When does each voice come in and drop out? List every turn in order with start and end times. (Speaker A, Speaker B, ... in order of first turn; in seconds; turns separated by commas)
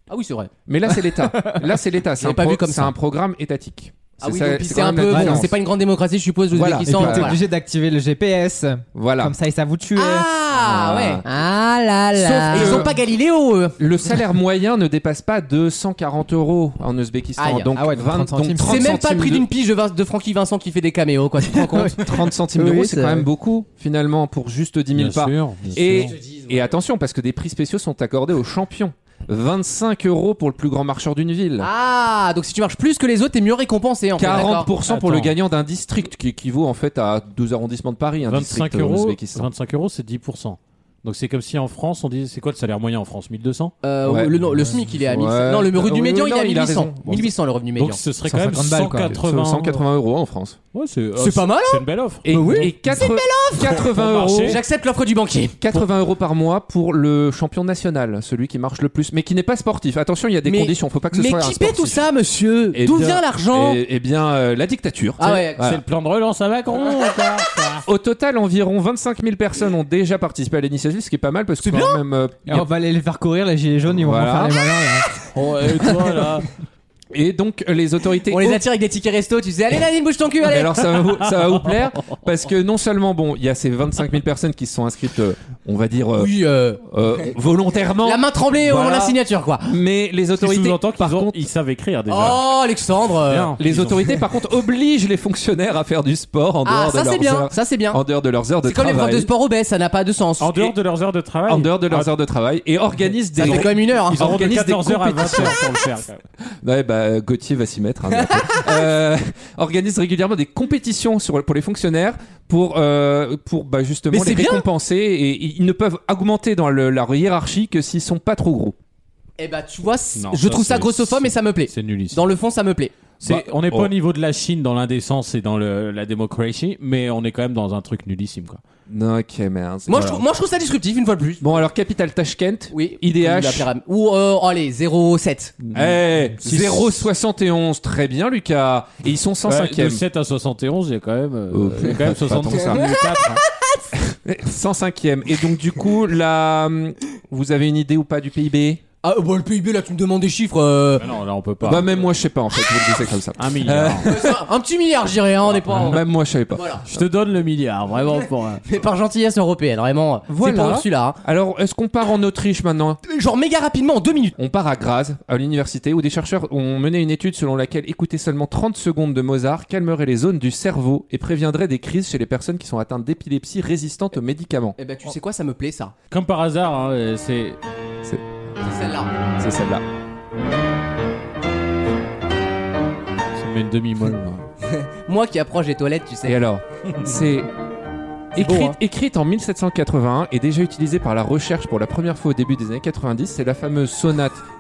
Speaker A: 0.1-0.5, Speaker B: 0.7-5.5, Speaker C: 1.1-1.6, Speaker A: 2.2-2.9, Speaker A: 4.2-7.4, Speaker C: 5.1-5.5, Speaker B: 6.5-7.4, Speaker C: 6.9-10.3, Speaker B: 8.9-9.3, Speaker A: 10.0-11.2, Speaker B: 10.5-11.2, Speaker D: 11.2-12.9, Speaker A: 12.2-13.8, Speaker B: 12.5-13.0, Speaker B: 13.8-19.5, Speaker A: 17.4-17.7, Speaker C: 17.7-19.1, Speaker A: 18.6-22.0, Speaker B: 22.0-31.7, Speaker D: 22.5-23.3, Speaker E: 24.9-26.2, Speaker A: 31.6-34.7, Speaker B: 34.2-39.5, Speaker E: 34.9-35.4, Speaker E: 38.3-43.7, Speaker A: 43.8-48.0, Speaker B: 44.0-47.3, Speaker E: 47.8-49.8, Speaker C: 48.2-49.2, Speaker B: 49.1-50.6, Speaker E: 50.7-52.3, Speaker A: 51.2-55.8, Speaker B: 52.2-54.6, Speaker E: 53.8-54.6, Speaker B: 55.6-62.0, Speaker A: 60.5-63.8, Speaker B: 62.7-65.8, Speaker A: 65.2-65.7, Speaker E: 65.6-67.9, Speaker B: 67.9-72.7, Speaker A: 71.6-72.0, Speaker C: 72.5-75.2, Speaker B: 73.9-74.6, Speaker E: 75.3-76.5, Speaker B: 77.1-78.6, Speaker A: 78.3-80.9, Speaker B: 80.4-91.5, Speaker A: 86.2-86.8, Speaker A: 88.0-89.7, Speaker E: 90.4-92.6, Speaker A: 92.1-93.5, Speaker E: 93.2-94.2, Speaker B: 93.6-99.3, Speaker A: 96.7-98.0, Speaker A: 98.6-100.8, Speaker E: 100.4-102.1, Speaker B: 101.5-105.6, Speaker A: 103.3-104.3, Speaker E: 103.4-106.2, Speaker B: 106.6-118.8, Speaker A: 108.2-108.6, Speaker A: 114.1-114.7, Speaker A: 119.4-122.9, Speaker E: 120.2-122.2, Speaker E: 123.2-128.6, Speaker B: 123.2-123.9, Speaker B: 128.9-130.2, Speaker A: 129.9-131.6, Speaker B: 131.4-133.7, Speaker A: 132.7-135.6, Speaker E: 135.7-137.1, Speaker B: 135.7-140.0, Speaker E: 139.5-143.4, Speaker B: 141.5-142.9, Speaker B: 144.1-148.8, Speaker A: 149.0-151.1, Speaker E: 151.0-152.1, Speaker B: 151.6-154.4, Speaker E: 153.4-154.1, Speaker A: 154.0-156.9, Speaker B: 155.6-156.8, Speaker E: 155.7-156.0, Speaker E: 156.9-158.6, Speaker A: 158.7-161.2, Speaker B: 160.3-163.0, Speaker A: 163.1-164.4, Speaker B: 164.4-174.8, Speaker A: 174.8-175.9, Speaker E: 176.1-177.6, Speaker B: 178.0-178.7, Speaker A: 178.6-179.1, Speaker B: 179.4-179.8, Speaker E: 183.3-184.5, Speaker A: 184.8-186.4, Speaker B: 186.2-187.5, Speaker B: 188.3-194.4, Speaker A: 188.4-188.8